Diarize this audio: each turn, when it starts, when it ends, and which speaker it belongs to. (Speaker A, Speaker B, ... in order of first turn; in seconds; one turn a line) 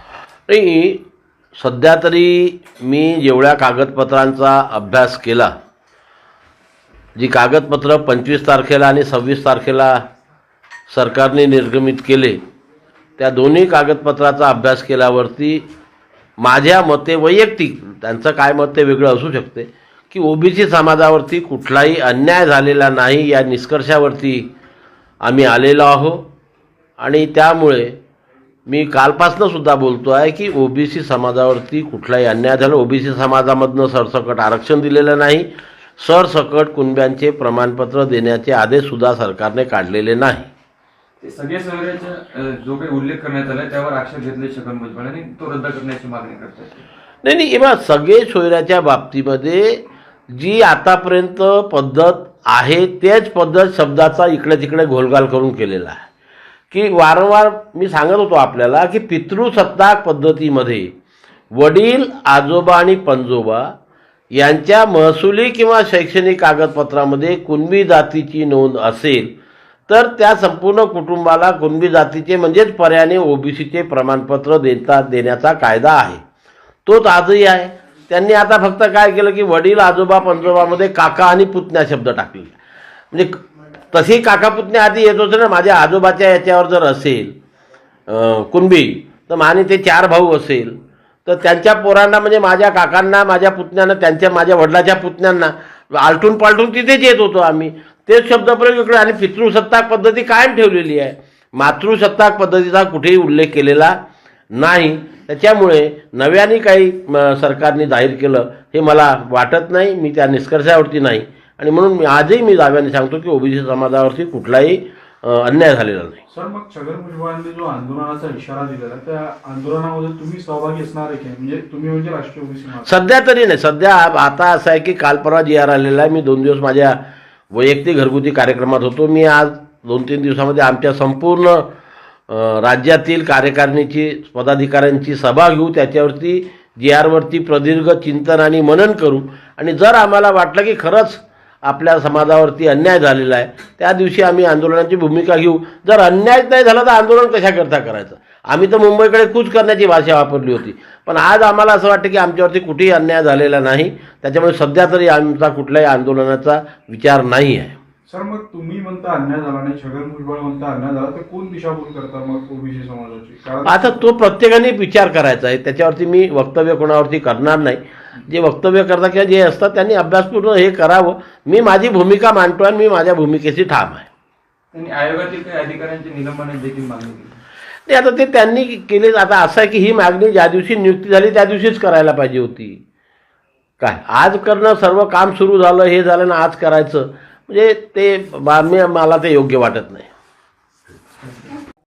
Speaker A: 0.5-1.0
Speaker A: 1.6-5.5
Speaker A: 7.2-10.0
Speaker A: 10.9-12.4
Speaker A: 13.2-15.7
Speaker A: 16.4-24.5
Speaker A: 25.2-26.2
Speaker A: 27.0-28.0
Speaker A: 28.7-40.5
Speaker B: 41.2-46.8
Speaker A: 47.2-56.0
Speaker A: 56.7-60.9
Speaker A: 61.5-63.7
Speaker A: 64.3-69.3
Speaker A: 69.9-76.2
Speaker A: 76.9-82.6
Speaker A: 83.9-87.3
Speaker A: 88.1-104.0
Speaker A: 104.5-116.2
Speaker C: 116.3-122.9
Speaker A: 122.8-127.0
Speaker A: 127.5-131.7
Speaker A: 132.3-157.8
Speaker C: 158.1-164.0
Speaker A: 163.7-174.1
Speaker B: 174.7-177.4
Speaker A: 177.9-182.8
Speaker A: 183.8-190.1
Speaker B: 191.2-191.5